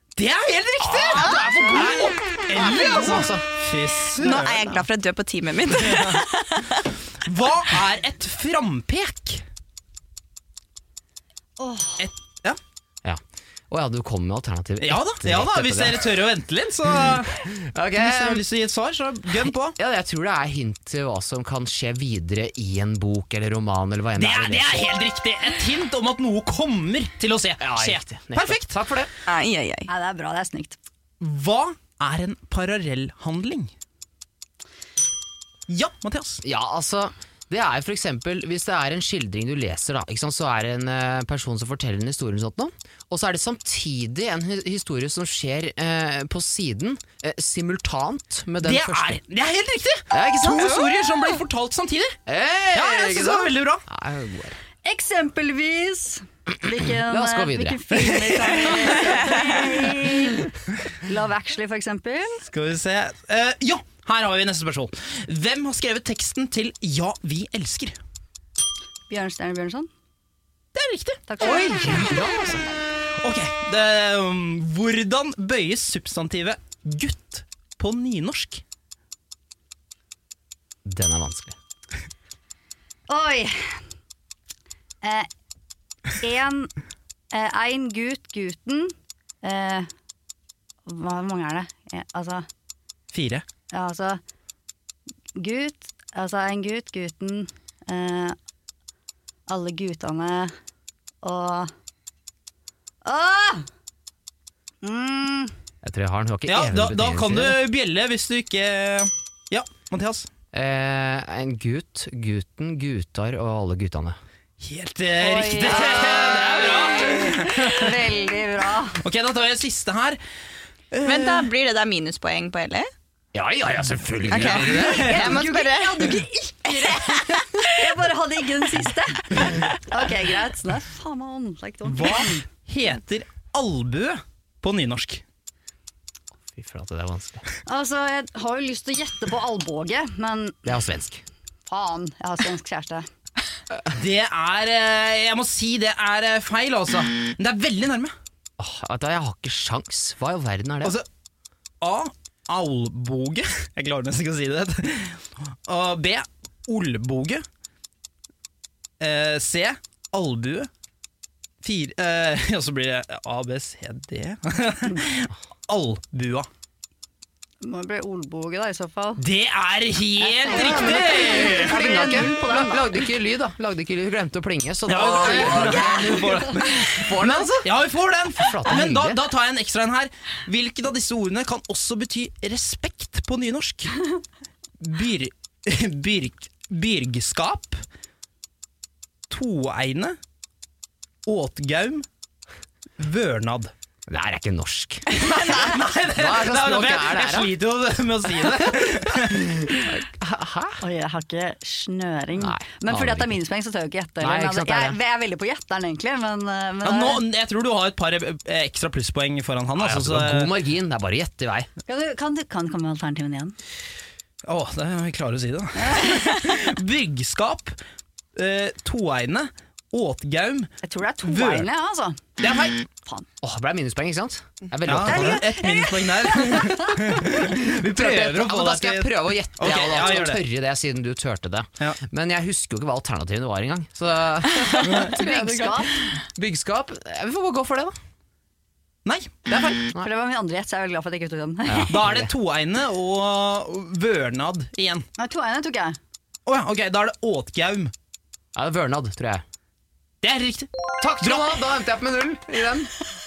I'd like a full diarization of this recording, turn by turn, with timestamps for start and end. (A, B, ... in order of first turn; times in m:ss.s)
0:00.2-0:04.8 A
0:00.8-0:03.5 B
0:01.2-0:01.8 C
0:04.2-0:06.9 D
0:05.8-0:06.2 A
0:07.2-0:09.4 A
0:11.6-0:12.0 C
0:12.0-0:12.6 A
0:13.0-0:16.1 B
0:14.8-0:17.4 A
0:17.4-0:18.4 B
0:18.0-0:19.8 A
0:19.8-0:24.9 B
0:24.2-0:28.7 A
0:27.6-0:29.1 B
0:29.3-0:29.9 D
0:29.9-0:30.8 C
0:31.2-0:33.7 A
0:35.7-0:36.4 A
0:36.4-0:49.2 B
0:48.6-0:52.2 A
0:50.1-0:50.9 B
0:52.3-0:54.6 B
0:52.7-0:53.8 A
0:54.8-1:02.5 C
0:56.8-0:58.0 B
0:58.1-0:59.1 A
1:02.4-1:08.0 A
1:09.1-1:09.9 C
1:10.8-1:12.2 A
1:11.3-1:12.1 C
1:11.4-1:12.6 B
1:13.2-1:18.6 A
1:20.9-1:21.6 B
1:23.1-1:23.8 C
1:25.0-1:25.3 C
1:26.2-1:26.7 C
1:27.3-1:29.9 C
1:30.9-1:32.5 C
1:33.1-1:33.4 A
1:33.7-1:34.2 C
1:35.4-1:38.4 C
1:39.5-1:40.5 C
1:41.2-1:41.7 C
1:43.0-1:43.7 C
1:44.8-1:45.5 C
1:45.8-1:47.6 B
1:46.5-1:50.3 A
1:50.5-1:54.2 B
1:54.6-1:58.0 A
1:55.2-1:59.0 C
1:59.0-2:00.2 A
2:00.9-2:01.5 A
2:01.0-2:02.9 D
2:03.3-2:05.2 B
2:04.3-2:05.4 A
2:04.3-2:07.6 D
2:04.7-2:12.4 C
2:11.8-2:15.2 A
2:16.5-2:17.4 B
2:17.7-2:20.6 C
2:20.6-2:21.2 B
2:21.7-2:23.1 C
2:23.9-2:28.1 A
2:28.6-2:31.0 B
2:31.8-2:37.4 A
2:39.0-2:40.7 A
2:41.6-2:46.5 A
2:47.6-2:49.2 C
2:49.2-2:51.8 A
2:50.2-2:53.0 C
2:50.5-2:57.7 B
2:54.9-3:04.1 A
2:55.0-2:56.6 C
2:58.3-2:59.2 B
3:04.8-3:07.8 A
3:09.3-3:10.2 A
3:11.3-3:12.0 A
3:13.0-3:13.7 A
3:14.1-3:15.2 B
3:15.1-3:19.8 A
3:16.1-3:17.5 B
3:19.3-3:20.8 B
3:20.8-3:27.2 C
3:22.4-3:23.4 B
3:24.2-3:25.0 B
3:26.8-3:30.5 A
3:29.8-3:31.7 B
3:31.9-3:33.6 C
3:34.5-3:37.8 A
3:35.8-3:36.6 C
3:38.4-3:40.7 A
3:40.8-3:42.2 C
3:41.2-3:41.7 A
3:42.4-3:42.9 A
3:43.4-3:45.6 B
3:44.8-3:50.4 A
3:45.0-3:47.0 C
3:47.7-3:58.0 B
3:54.8-3:55.2 A
3:55.1-3:55.9 C
3:59.0-3:59.9 A
4:00.0-4:01.9 C
4:01.7-4:02.3 B
4:01.9-4:05.1 A
4:05.2-4:06.0 C
4:06.5-4:07.9 A
4:08.6-4:09.4 B
4:10.2-4:10.7 A
4:11.0-4:12.9 B
4:11.2-4:11.6 A